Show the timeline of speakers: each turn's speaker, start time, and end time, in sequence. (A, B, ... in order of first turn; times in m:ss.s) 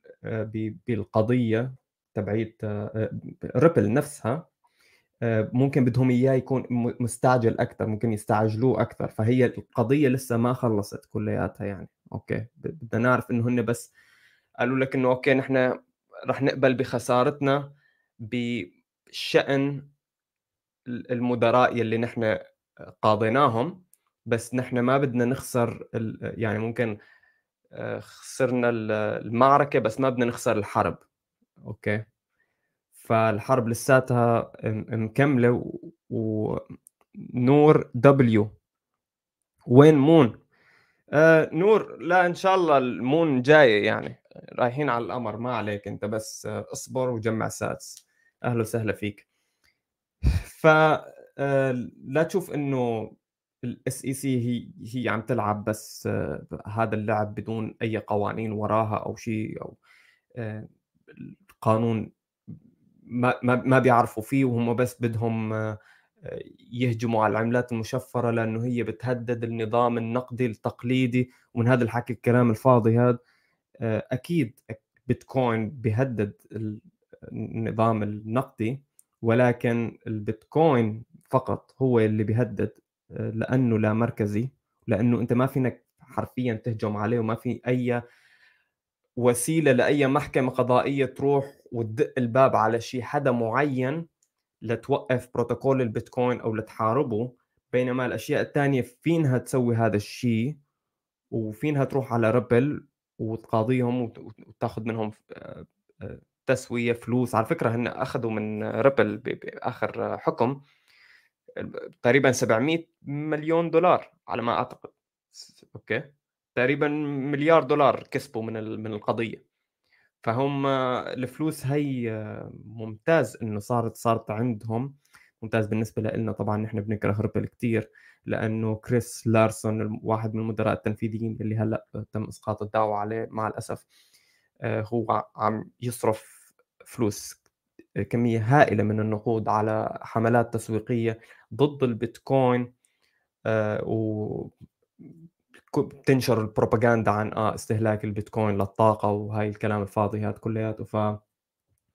0:00.3-0:04.4 A
0:05.3-0:13.9 A
0:14.6-0:15.6 A
0:16.3-0:17.6 A
0:18.3-0:19.8 A
0:20.9-0:22.3 A
0:23.0-0:26.9 A
0:27.8-0:31.0 A
0:31.7-0:32.0 A
0:33.0-0:36.6 A
0:37.4-0:38.5 A
0:39.7-0:40.4 A
0:41.2-0:49.2 A
0:50.5-0:52.9 A
0:53.6-0:59.8 A
1:00.4-1:02.0 A
1:03.1-1:13.2 A
1:13.8-1:28.0 A
1:29.2-1:34.0 A
1:34.7-1:40.6 A
1:41.3-1:50.6 A
1:51.6-1:54.9 A
1:55.6-1:59.4 A
2:00.2-2:13.8 A
2:14.6-2:17.4 A
2:18.0-2:22.7 A
2:23.5-2:24.5 A
2:25.7-2:31.2 A